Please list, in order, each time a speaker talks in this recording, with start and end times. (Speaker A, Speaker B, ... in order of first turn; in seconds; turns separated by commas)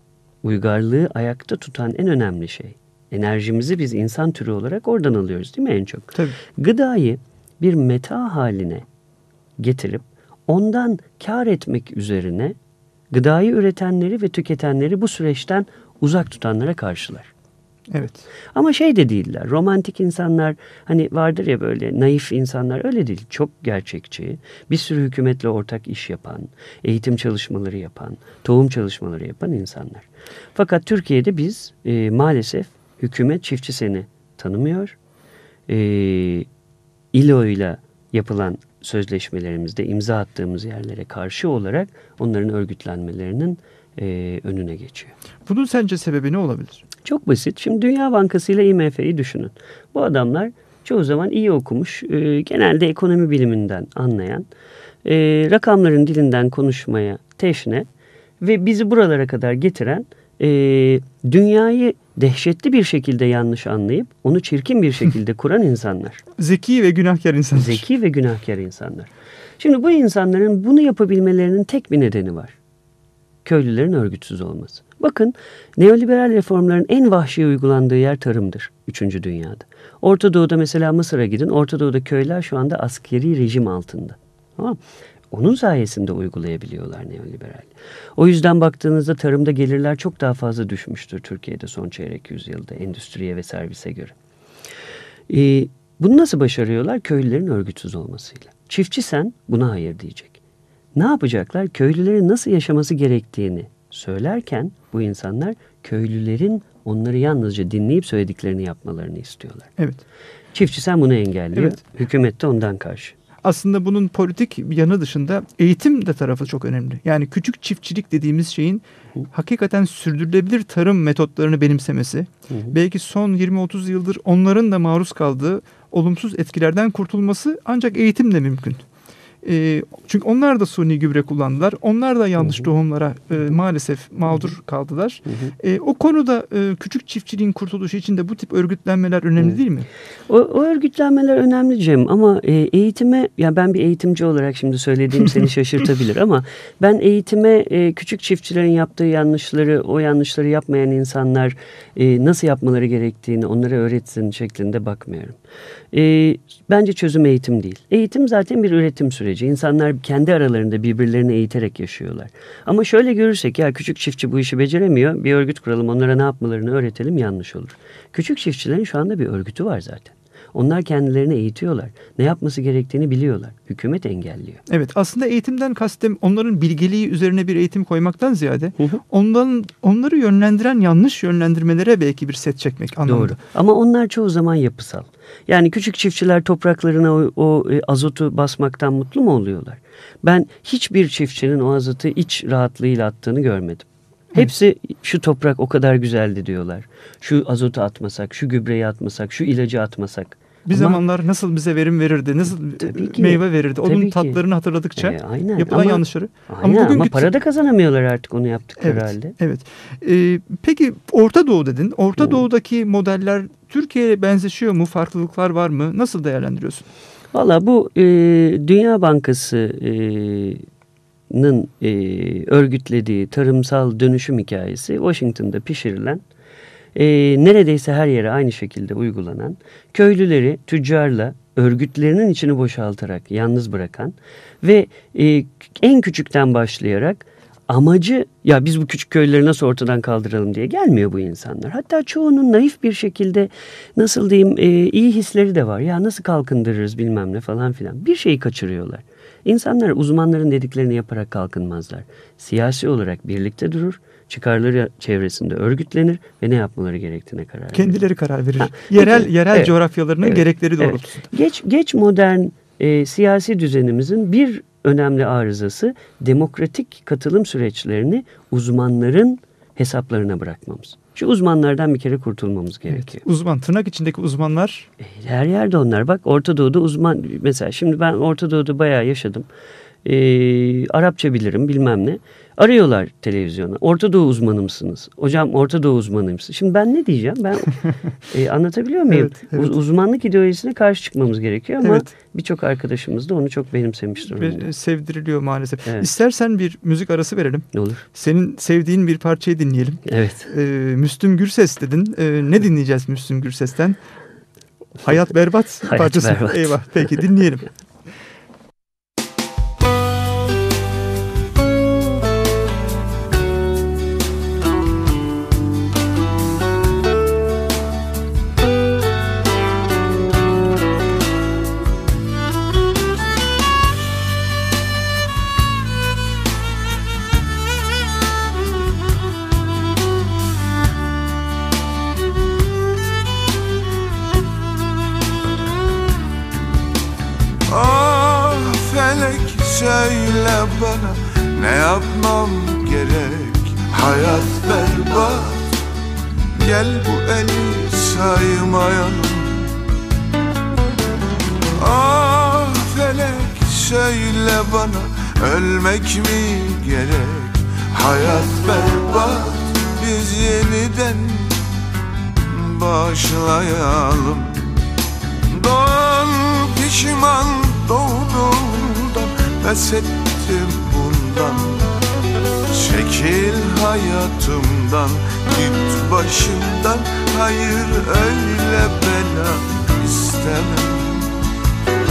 Speaker A: 0.4-8.9, Speaker A: 9.6-12.6, Speaker A: 13.1-17.3, Speaker B: 17.9-18.2, Speaker A: 18.5-35.0, Speaker A: 35.7-36.5, Speaker A: 37.1-45.1, Speaker B: 45.5-46.8, Speaker A: 47.0-54.5, Speaker A: 55.0-57.9, Speaker A: 58.4-66.2, Speaker B: 66.4-67.8, Speaker A: 67.5-72.6, Speaker A: 73.5-84.8, Speaker A: 85.3-94.1, Speaker A: 95.3-100.4, Speaker A: 101.0-109.7, Speaker A: 110.5-113.2, Speaker B: 111.5-111.8, Speaker B: 113.4-128.8, Speaker B: 129.4-139.9, Speaker A: 140.3-155.4, Speaker A: 155.9-174.6, Speaker B: 174.7-183.4, Speaker A: 183.1-201.0, Speaker B: 200.7-207.3, Speaker A: 202.8-204.4, Speaker A: 205.0-209.3, Speaker B: 208.8-216.9, Speaker A: 217.3-220.6, Speaker A: 221.3-226.2, Speaker A: 226.9-258.0, Speaker B: 257.7-261.3, Speaker A: 258.6-273.2, Speaker B: 272.9-274.9, Speaker A: 275.0-279.5, Speaker A: 280.0-294.7, Speaker B: 289.1-289.8, Speaker B: 291.8-292.1, Speaker B: 294.3-304.0, Speaker A: 297.7-298.1, Speaker A: 300.1-300.5, Speaker B: 304.9-307.7, Speaker A: 305.8-306.8, Speaker C: 337.7-345.8, Speaker C: 346.5-349.7, Speaker C: 351.7-361.6, Speaker C: 362.4-364.7, Speaker C: 365.5-371.9, Speaker C: 372.7-381.3